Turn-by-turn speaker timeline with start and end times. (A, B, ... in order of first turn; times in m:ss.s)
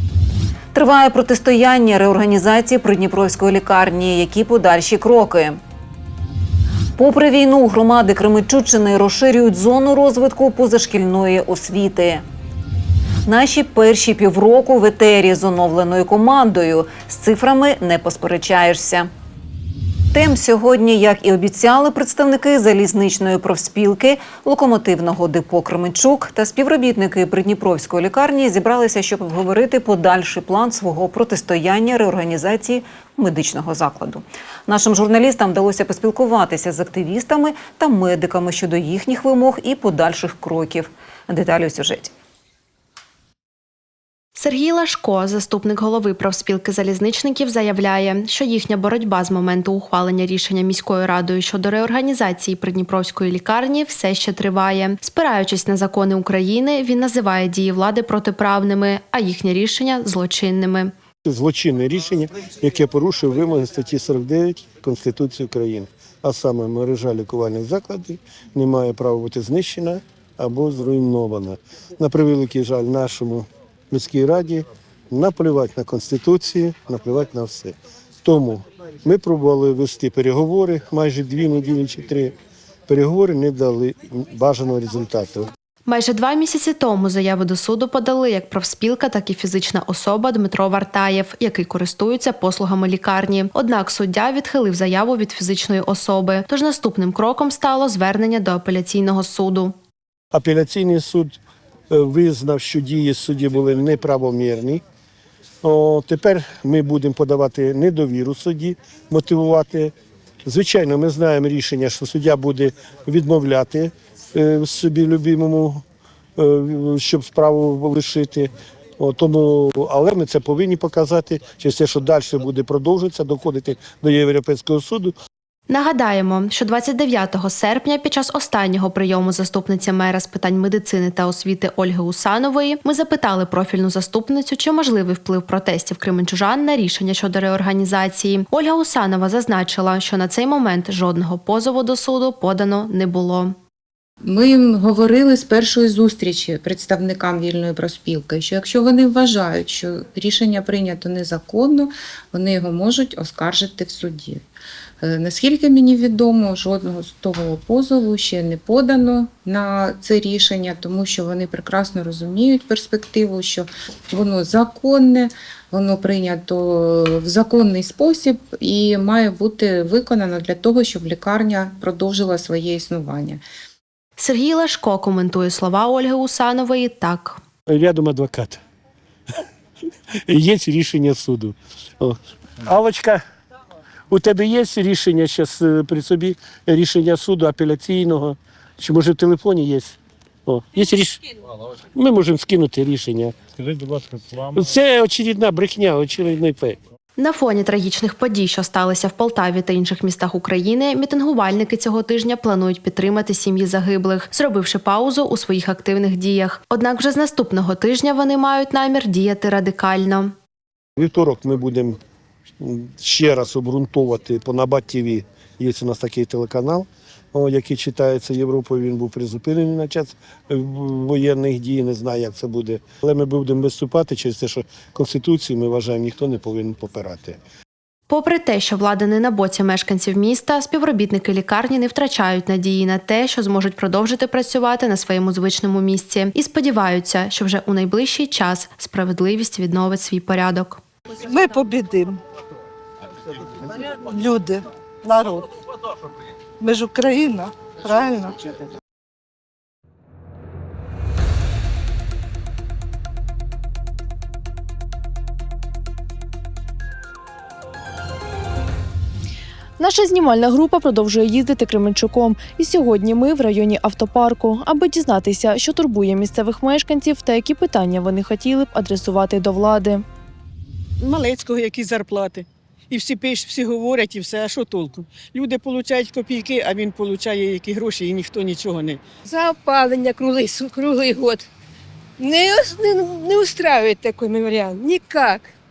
0:00.7-0:05.6 A
0:07.0-0:12.2 A
0:13.2-0:19.1 A
0:20.1-0:42.1 A
0:44.4-1:00.9 B
1:01.2-1:22.3 C
1:22.9-1:25.5 C
1:25.9-1:39.7 B
1:40.3-1:41.4 C
1:41.9-1:44.8 C
1:45.6-1:49.9 C
1:50.4-1:55.8 C
1:56.4-2:05.2 C
2:05.7-2:23.6 B
2:24.2-2:34.4 D
2:35.0-2:53.4 D
2:54.2-2:57.4 B
2:57.7-2:58.6 C
3:00.3-3:03.2 C
3:04.1-3:11.2 C
3:12.0-3:13.4 C
3:14.5-3:16.8 C
3:17.2-3:30.3 B
3:31.0-3:32.0 C
3:32.6-3:47.4 C
3:48.1-4:00.8 B
4:01.3-4:02.2 E
4:04.1-4:05.5 E
4:06.6-4:08.4 E
4:19.8-4:30.0 F
4:31.0-4:39.0 G
4:39.3-4:41.4 H
4:42.2-4:45.4 H